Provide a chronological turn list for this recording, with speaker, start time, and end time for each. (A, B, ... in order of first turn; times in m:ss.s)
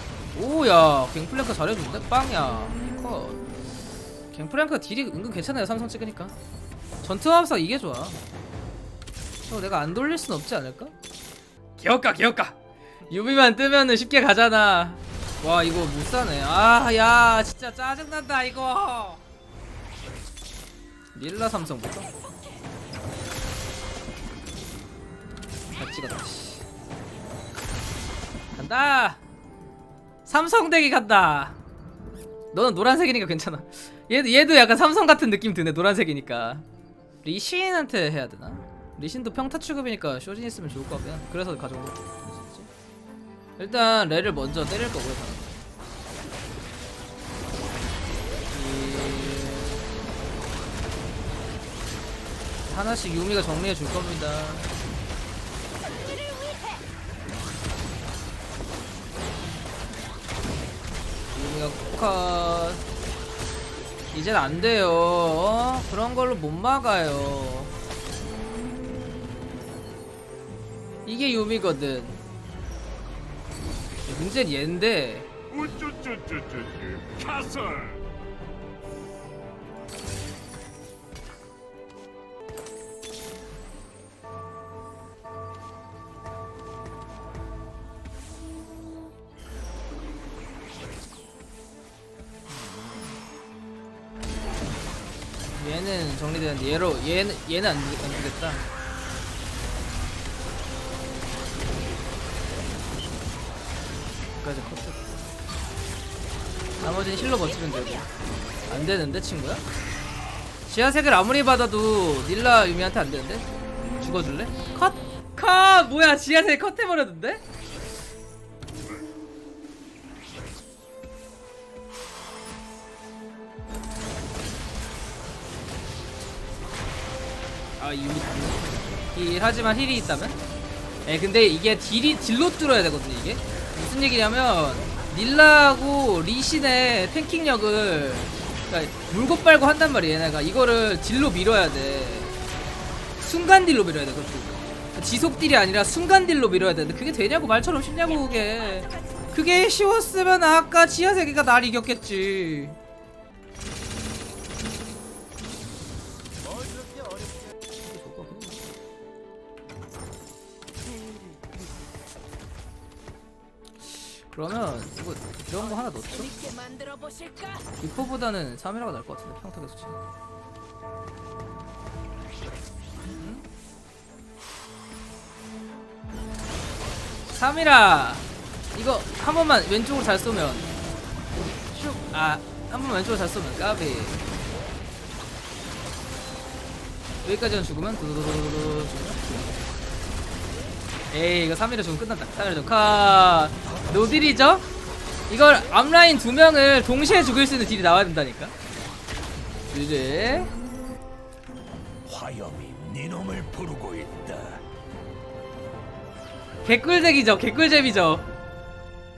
0:00.3-0:03.4 A
0:04.3-0:06.4 A
0:07.0-0:08.2 A
0:09.5-0:10.9 A
0:11.8-0:12.6 A
0:13.1-0:19.2 A
0:21.1-0:22.1 A
0:25.7-0:26.7 A
0:28.5-0:29.2 A
0:30.2-0:31.6 A
0:32.5-0:36.6 A
0:37.2-0:42.7 A
0:43.6-0:45.6 A
0:48.5-0:49.8 A
0:52.7-0:54.8 A
0:56.0-0:56.8 B
1:01.3-1:02.8 A
1:04.1-1:07.7 A
1:11.0-1:12.2 A
1:14.0-1:15.3 A
1:15.5-1:18.0 C
1:32.5-1:33.2 A
1:35.5-1:38.6 A
1:44.4-1:45.3 A
1:46.8-1:48.1 A
1:48.7-1:49.6 A
1:50.7-1:57.4 A
2:07.8-2:10.5 A
2:11.0-2:22.4 A
2:23.2-2:32.8 A
2:28.4-2:29.3 B
2:37.8-2:38.6 A
2:43.8-2:46.4 A
2:46.3-2:47.6 B
2:47.8-2:50.0 A
2:53.2-2:53.4 A
2:57.3-3:00.8 A
3:01.7-3:04.2 A
3:07.2-3:09.4 A
3:11.1-3:14.7 A
3:15.3-3:18.5 A
3:19.7-3:20.5 A
3:22.0-3:24.6 C
3:26.6-3:28.3 A